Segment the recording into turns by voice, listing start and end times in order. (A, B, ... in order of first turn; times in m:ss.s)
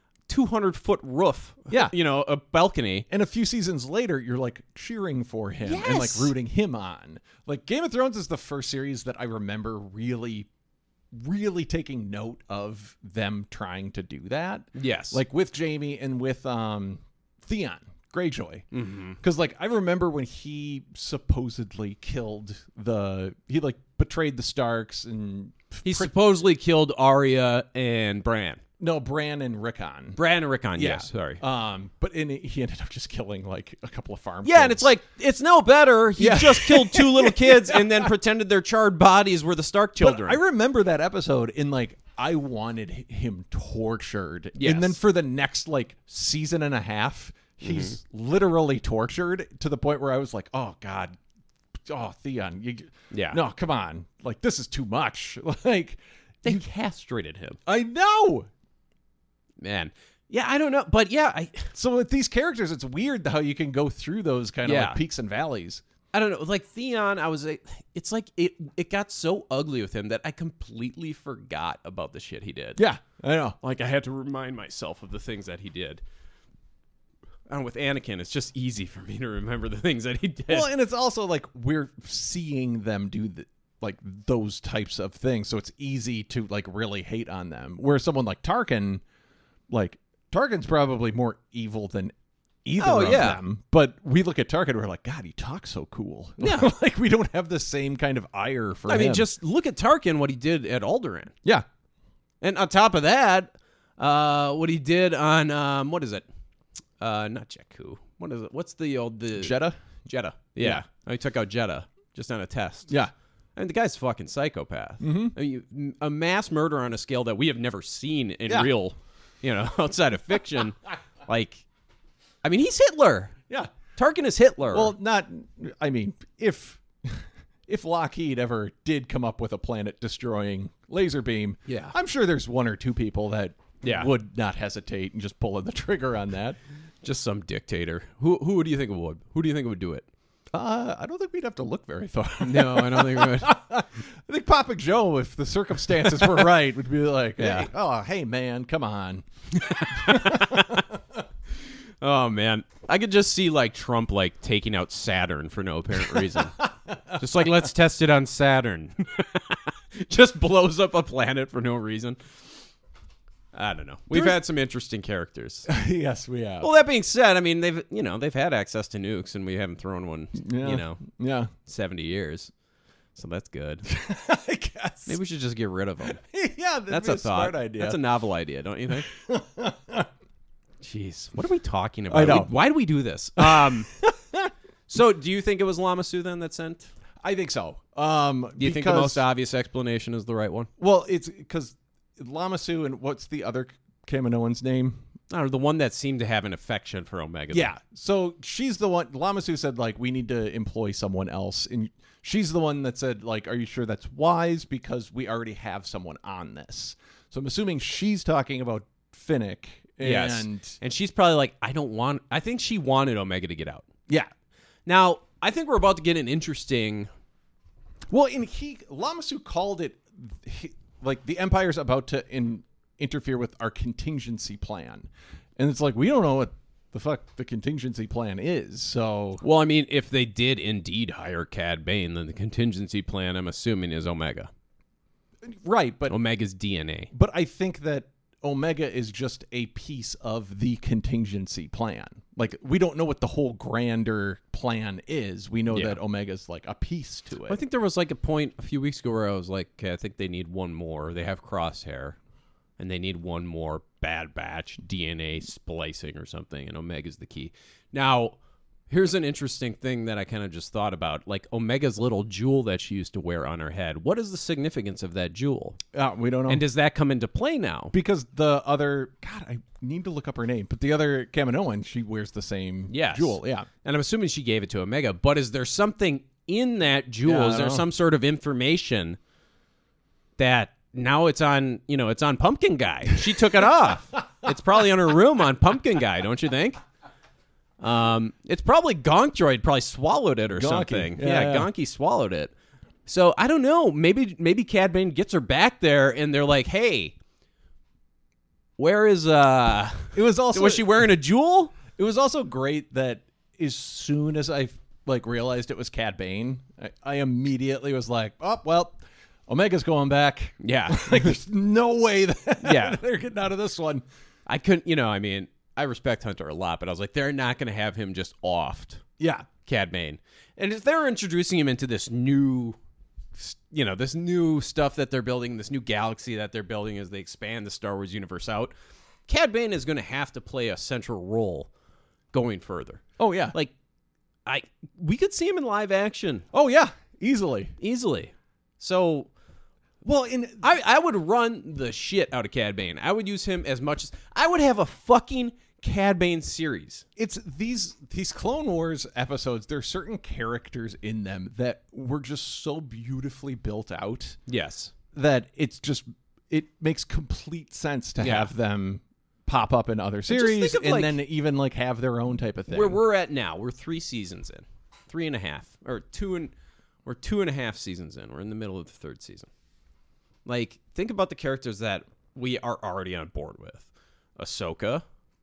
0:00.3-0:03.1 A
0:01.7-0:02.0 B
0:03.1-0:10.5 B
0:05.6-0:06.3 A
0:11.1-0:18.7 B
0:14.8-0:15.2 A
0:18.7-0:19.2 A
0:19.2-0:26.1 B
0:25.8-0:28.6 A
0:28.8-0:30.2 B
0:30.2-0:31.4 A
0:30.8-0:34.9 B
0:34.4-0:40.4 A
0:36.2-0:38.1 B
0:40.0-0:51.2 B
0:44.6-0:45.0 A
0:47.6-0:48.0 A
0:51.9-0:56.6 B
0:53.1-0:53.4 A
0:56.4-0:57.6 A
0:57.7-0:58.5 B
0:59.6-1:01.7 A
1:01.7-1:05.8 B
1:04.6-1:05.0 A
1:06.1-1:12.8 A
1:12.8-1:13.6 B
1:13.6-1:16.0 A
1:17.5-1:20.7 A
1:20.5-1:29.0 B
1:29.7-1:32.1 B
1:32.6-1:39.3 B
1:32.8-1:33.4 A
1:36.4-1:36.7 A
1:38.9-1:41.3 A
1:42.4-1:46.3 A
1:47.0-1:53.0 A
1:49.4-1:49.8 B
1:53.6-2:01.6 A
1:55.0-1:55.4 B
2:02.4-2:03.4 A
2:04.0-2:04.9 A
2:04.7-2:16.6 B
2:11.7-2:12.0 A
2:13.8-2:14.1 A
2:17.0-2:20.1 A
2:20.5-2:31.0 B
2:22.4-2:23.5 A
2:27.4-2:27.7 A
2:29.5-2:30.9 A
2:32.0-2:36.6 A
2:36.1-2:37.7 B
2:37.2-2:42.2 A
2:43.5-2:45.7 A
2:44.1-2:44.4 B
2:45.7-2:46.7 B
2:46.6-2:51.0 A
2:50.4-2:51.5 B
2:51.6-2:52.5 A
2:53.2-2:53.9 A
2:53.9-2:55.2 B
2:55.1-2:56.2 A
2:56.2-2:58.0 B
2:56.9-2:59.1 A
2:58.9-3:00.1 B
3:00.8-3:03.9 A
3:02.1-3:02.6 B
3:03.4-3:04.5 B
3:04.9-3:06.9 A
3:07.2-3:09.2 B
3:08.6-3:10.7 A
3:10.8-3:15.0 B
3:15.3-3:17.7 A
3:17.5-3:30.8 B
3:30.0-3:33.9 A
3:34.9-3:37.1 A
3:38.1-3:49.4 B
3:49.4-3:54.5 A
3:55.4-3:56.2 B
3:56.1-3:57.1 A
3:57.1-4:07.6 B
4:05.7-4:06.0 A
4:07.5-4:12.2 A
4:12.8-4:18.4 A
4:18.9-4:25.8 A
4:25.9-4:26.6 B
4:26.5-4:28.0 A
4:27.9-4:33.7 B
4:32.9-4:39.2 A
4:37.2-4:37.9 B
4:40.4-4:46.8 A
4:47.8-4:52.5 A
4:50.6-4:51.7 B
4:53.1-4:57.2 A
4:58.8-5:01.8 A
5:00.1-5:01.1 B
5:01.9-5:14.0 B
5:10.6-5:11.3 A
5:12.6-5:13.0 A
5:14.5-5:19.0 A
5:19.2-5:19.5 B
5:19.6-5:22.8 A
5:23.4-5:28.8 A
5:29.3-5:31.7 A
5:32.3-5:33.7 A
5:33.2-5:33.6 B
5:34.5-5:36.5 A
5:36.5-5:37.8 B
5:37.8-5:39.3 A
5:40.0-5:40.7 B
5:40.6-5:47.0 A
5:47.2-5:54.4 B
5:54.5-5:54.9 A
5:55.1-6:03.0 B
5:58.2-5:58.5 A
6:00.3-6:01.2 A
6:02.7-6:06.5 A
6:07.0-6:09.5 A
6:10.5-6:15.0 A